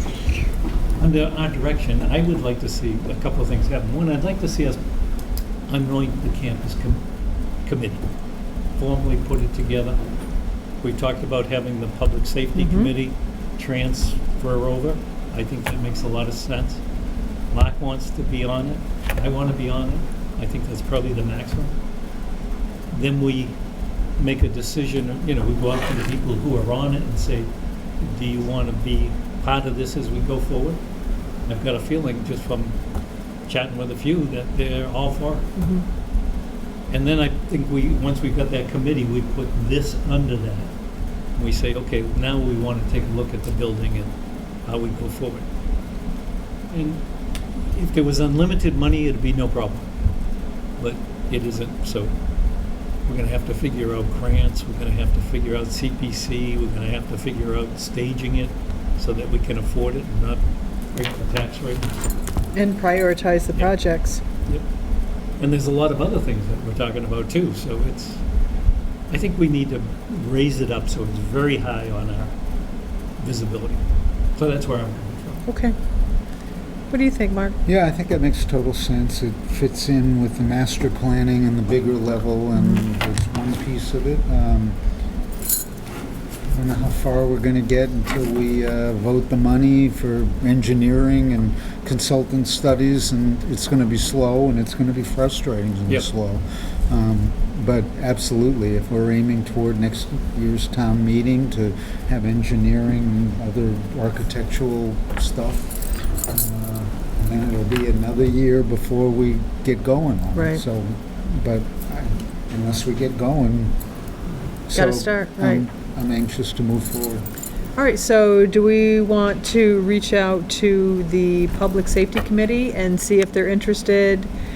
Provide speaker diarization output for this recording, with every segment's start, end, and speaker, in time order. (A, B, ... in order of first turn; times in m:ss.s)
0:01.0-0:04.8 A
0:05.7-0:07.0 A
0:07.6-0:08.1 A
0:08.8-0:10.0 A
0:10.8-0:16.8 A
0:12.6-0:12.9 B
0:17.5-0:21.7 A
0:22.9-0:23.5 A
0:24.2-0:27.5 A
0:28.0-0:30.8 A
0:31.4-0:32.8 A
0:33.4-0:35.5 A
0:35.6-0:35.8 B
0:36.9-0:40.7 A
0:41.4-0:44.1 A
0:44.6-0:45.5 A
0:46.7-0:47.0 A
0:47.6-0:49.9 A
0:50.8-0:52.1 A
0:53.0-1:00.4 A
1:00.9-1:02.0 A
1:02.5-1:04.2 B
1:05.4-1:08.2 A
1:09.1-1:12.3 A
1:13.2-1:13.8 A
1:14.3-1:15.4 A
1:15.5-1:15.7 B
1:16.9-1:17.6 B
1:17.6-1:24.8 C
1:22.6-1:22.8 B
1:26.5-1:45.7 C
1:46.3-1:53.7 C
1:50.4-1:50.6 B
1:54.7-1:57.2 C
1:54.7-1:55.6 B
1:57.8-2:04.3 B